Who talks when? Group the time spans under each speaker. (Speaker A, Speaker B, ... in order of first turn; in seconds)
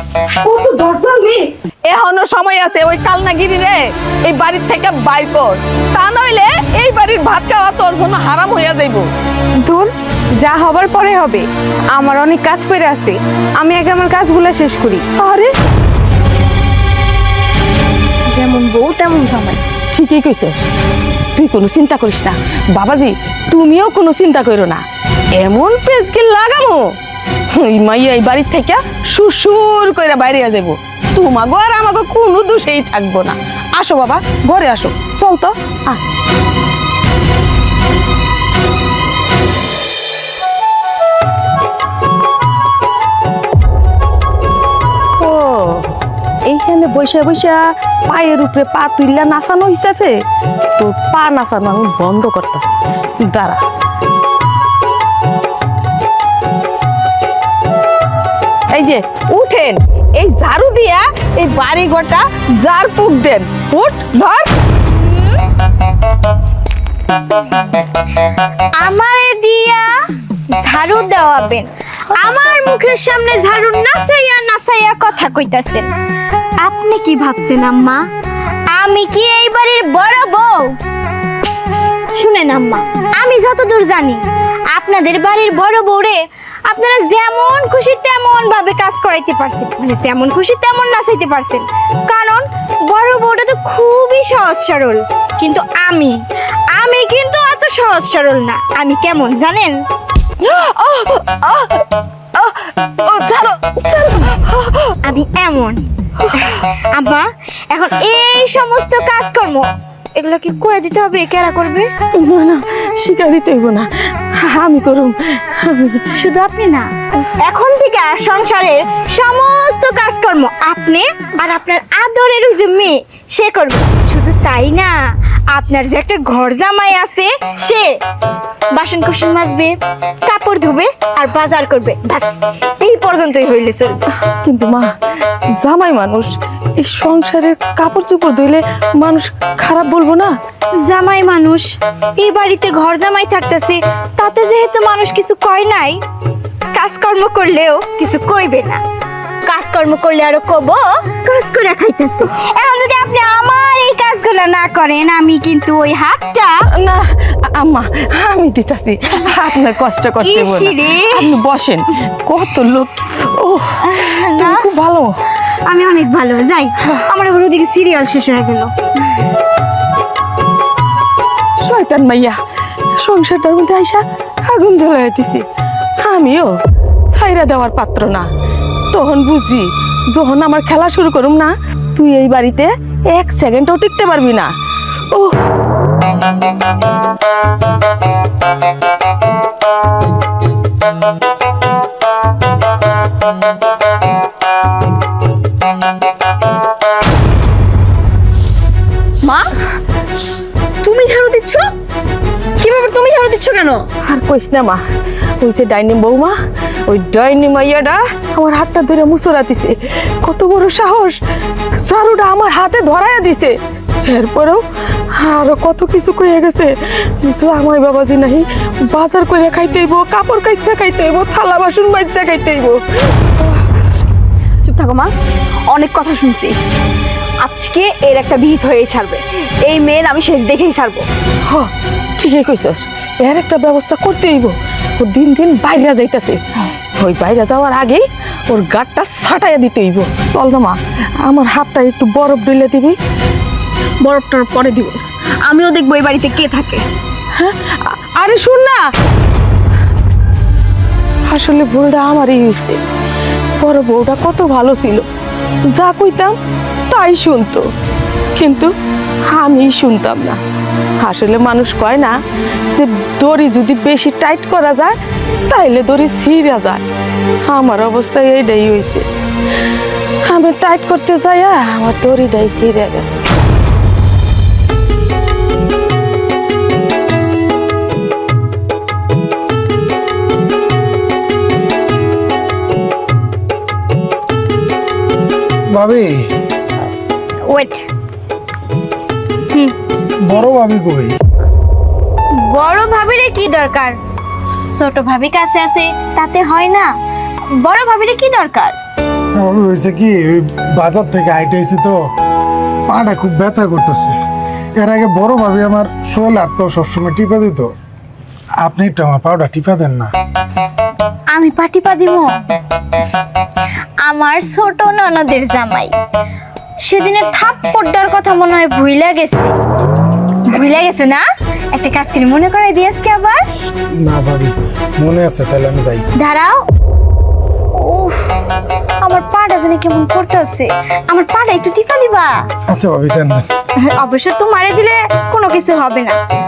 Speaker A: 0.4-9.1, 15.2-15.5, 19.9-20.6, 21.4-24.8, 25.4-26.9, 27.5-36.0, 45.2-50.2, 50.8-53.6, 58.7-64.5, 100.4-101.8, 102.4-105.0, 112.2-113.9, 114.4-116.1, 134.4-134.9, 135.6-140.3, 156.8-165.2, 171.6-172.4, 173.0-175.4, 176.0-176.5, 177.1-178.3, 178.9-184.5, 204.0-204.8, 205.4-206.4, 206.9-211.2, 211.8-223.4, 231.5-236.4, 237.0-243.0, 247.4-248.8, 251.3-252.8, 253.6-255.1, 255.7-256.3, 256.9-257.6, 258.4-258.7, 259.3-260.4, 261.0-262.1, 262.7-264.9, 265.5-266.9, 267.5-269.1, 270.3-273.2
Speaker B: 9.7-15.0
Speaker C: 18.9-19.6, 64.9-65.4, 68.8-69.9, 70.6-75.9, 76.6-78.0, 78.7-80.8, 82.2-96.2, 96.7-99.8, 105.0-105.8, 106.4-111.9, 116.2-116.9, 117.4-125.0, 125.5-127.9, 128.7-134.0, 140.8-141.7, 142.2-146.0, 146.8-148.8, 149.5-156.6, 160.2-161.2, 163.8-164.7, 165.7-168.7, 287.5-287.9, 292.4-294.0, 294.6-296.9, 297.6-298.8, 311.3-312.3, 314.0-315.9, 316.8-319.5, 320.5-323.4, 326.2-326.6, 327.8-328.3, 329.0-332.3, 333.9-336.2
Speaker D: 200.9-201.6, 202.6-203.9, 224.7-225.1, 225.7-226.6, 227.4-231.1, 244.0-246.8
Speaker E: 285.7-286.2, 290.2-291.1, 299.4-302.0, 302.9-304.2, 304.8-307.7, 308.6-310.1, 324.0-326.1, 332.7-333.5